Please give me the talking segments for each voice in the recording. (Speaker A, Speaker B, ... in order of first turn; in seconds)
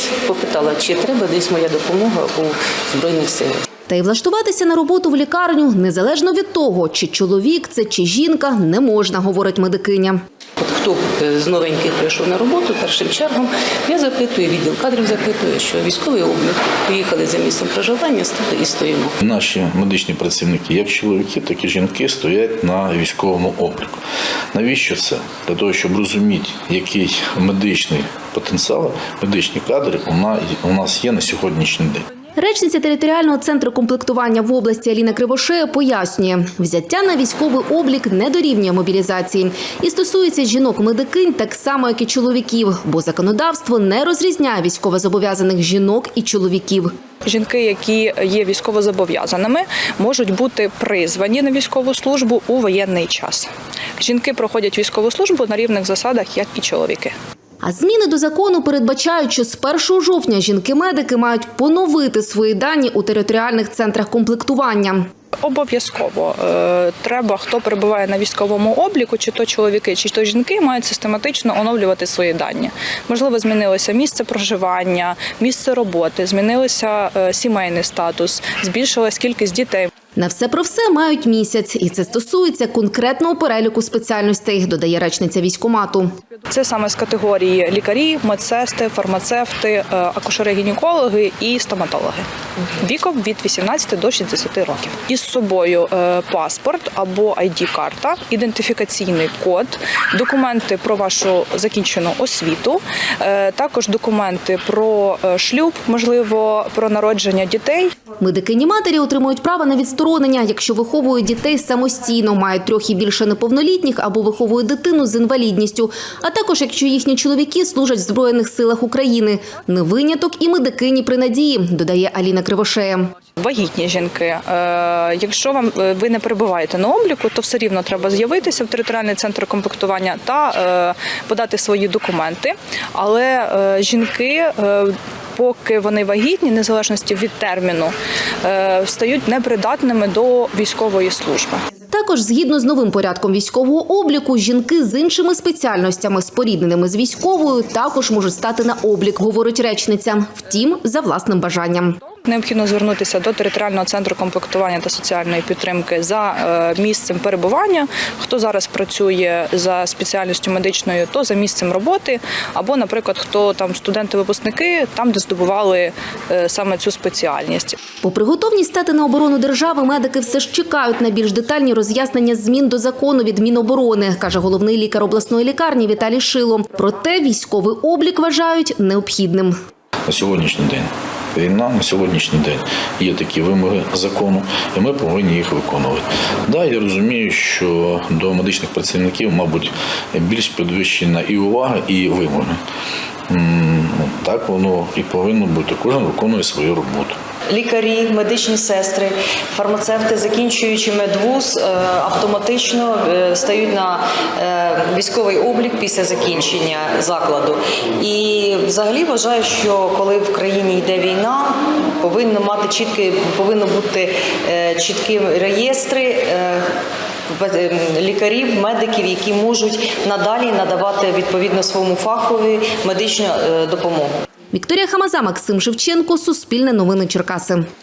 Speaker A: 0.3-2.3, 2.9-3.4, 10.6-13.3, 13.9-16.3, 16.9-19.1
Speaker B: 3.9-10.2, 32.4-46.9, 57.6-65.1, 80.2-86.1, 108.2-123.1, 141.9-152.0, 168.0-179.6, 224.5-227.6
Speaker C: 19.2-24.0, 24.5-32.0, 180.1-192.6, 193.3-197.2
Speaker D: 47.2-57.1, 65.4-79.9, 86.5-92.2, 92.8-107.9, 123.4-141.6, 152.2-167.8
Speaker E: 197.5-216.6, 217.3-224.2